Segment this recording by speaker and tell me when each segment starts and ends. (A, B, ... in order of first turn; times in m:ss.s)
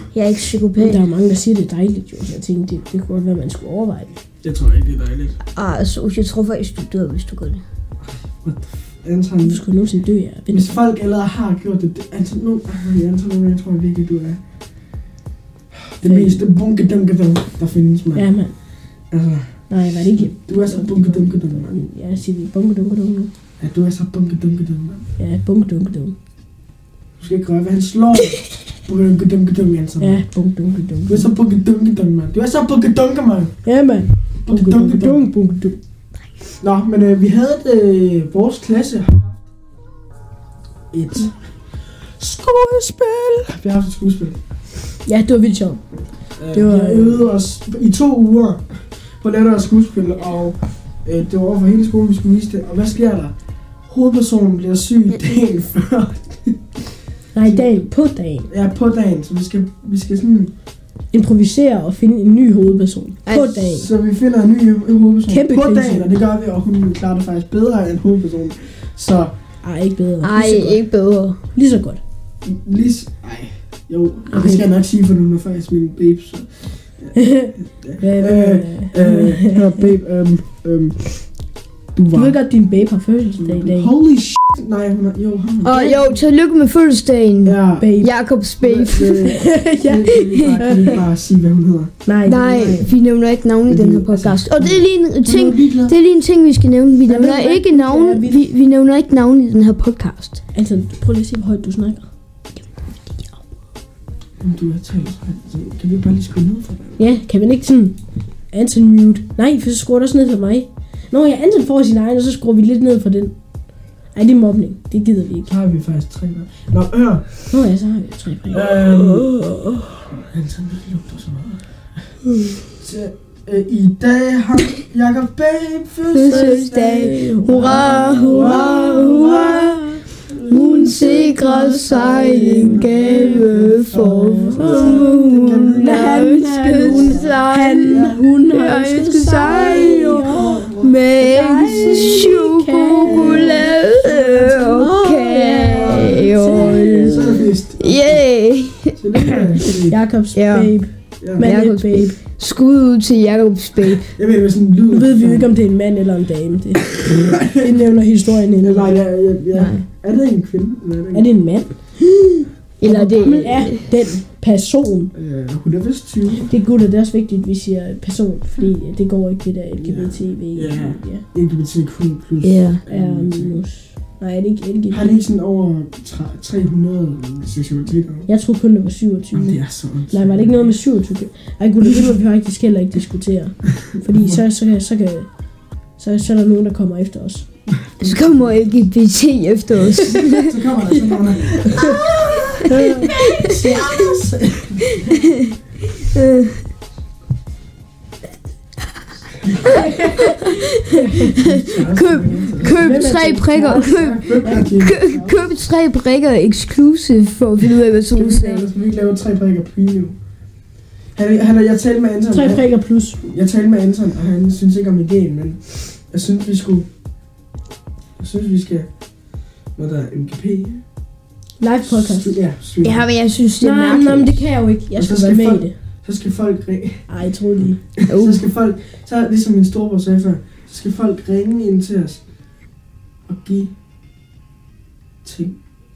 0:00.1-0:01.0 A
0:00.8-0:04.2 B
0:04.4-0:05.4 C
0:05.5-0:07.6 A
0:08.0-0:09.6 C
0:09.4-0:10.8 B
0:10.5-0:14.4 C
0:15.7-0:18.3 C
0:16.0-0:16.5 B
0:18.1-0:18.6 B
0:19.1-0:21.8 C
0:19.7-0:23.3 B
0:23.6-0:25.1 C
0:25.2-0:26.2 B
0:27.2-0:30.2 C
0:30.0-0:31.3 B
0:31.1-0:33.6 C
0:33.6-0:35.8 B
0:34.5-0:35.3 C
0:36.6-0:39.4 C
0:40.9-0:41.4 C
0:42.0-0:44.4 C
0:45.1-0:45.8 B
0:46.4-0:53.3 C
0:46.5-0:47.2 B
0:53.9-0:56.7 C
0:57.3-0:58.5 B
0:57.4-0:57.7 C
0:58.5-1:00.5 C
1:01.1-1:03.9 B
1:03.3-1:03.6 A
1:03.7-1:09.4 C
1:05.3-1:06.1 B
1:09.6-1:10.8 B
1:10.2-1:11.4 A
1:11.6-1:12.0 B
1:12.4-1:21.3 C
1:14.3-1:14.6 B
1:17.2-1:19.9 B
1:21.9-1:22.4 C
1:22.1-1:23.9 B
1:23.4-1:26.2 C
1:25.6-1:29.3 A
1:27.4-1:27.9 C
1:27.8-1:28.1 B
1:28.6-1:31.9 C
1:29.3-1:30.9 B
1:30.2-1:30.6 A
1:32.1-1:32.9 B
1:32.2-1:40.4 A
1:33.7-1:36.0 C
1:37.1-1:38.4 B
1:40.5-1:42.1 B
1:44.4-1:47.0 C
1:47.0-1:48.0 B
1:48.5-1:53.4 B
1:54.1-1:55.5 B
1:55.5-1:57.5 C
1:57.5-1:58.8 B
1:58.5-1:59.4 C
2:00.0-2:02.2 C
2:02.7-2:18.2 C
2:06.1-2:09.8 A
2:06.2-2:27.5 B
2:10.5-2:29.5 A
2:19.4-2:21.0 C
2:21.8-2:22.2 C
2:23.0-2:23.8 C
2:25.8-2:28.3 C
2:29.0-2:30.0 C
2:29.9-2:32.2 B
2:30.3-2:34.2 A
2:31.2-2:31.5 C
2:34.1-2:35.5 C
2:34.9-2:39.0 B
2:37.0-2:37.7 C
2:38.6-2:41.3 C
2:39.5-2:39.8 A
2:41.1-2:42.0 B
2:42.8-2:43.8 A
2:42.8-2:45.1 B
2:45.1-2:46.5 C
2:46.5-2:51.2 B
2:49.8-2:53.6 C
2:52.4-2:52.8 A
2:52.9-2:55.2 B
2:54.9-2:58.3 C
2:58.3-3:05.3 B
2:59.3-3:00.8 C
3:04.0-3:04.4 C
3:06.0-3:07.5 B
3:07.8-3:08.7 C
3:08.0-3:10.6 A
3:10.2-3:15.2 C
3:11.7-3:12.0 B
3:11.8-3:14.1 A
3:12.6-3:14.0 B
3:15.0-3:16.6 A
3:19.4-3:19.9 C
3:19.7-3:21.4 B
3:19.8-3:28.7 A
3:21.1-3:23.2 C
3:22.6-3:24.8 B
3:23.7-3:25.4 C
3:28.1-3:30.2 C
3:31.2-3:32.7 C
3:32.3-3:33.2 B
3:33.2-3:36.9 C
3:38.2-3:38.9 C
3:39.8-3:40.8 C
3:41.6-3:42.4 B
3:41.8-3:43.1 C
3:42.8-3:44.4 A
3:43.6-3:45.7 B
3:45.0-3:47.1 C
3:47.1-3:47.8 B
3:48.0-3:52.2 C
3:48.1-3:48.4 A
3:53.3-3:53.7 C
3:55.2-3:55.6 C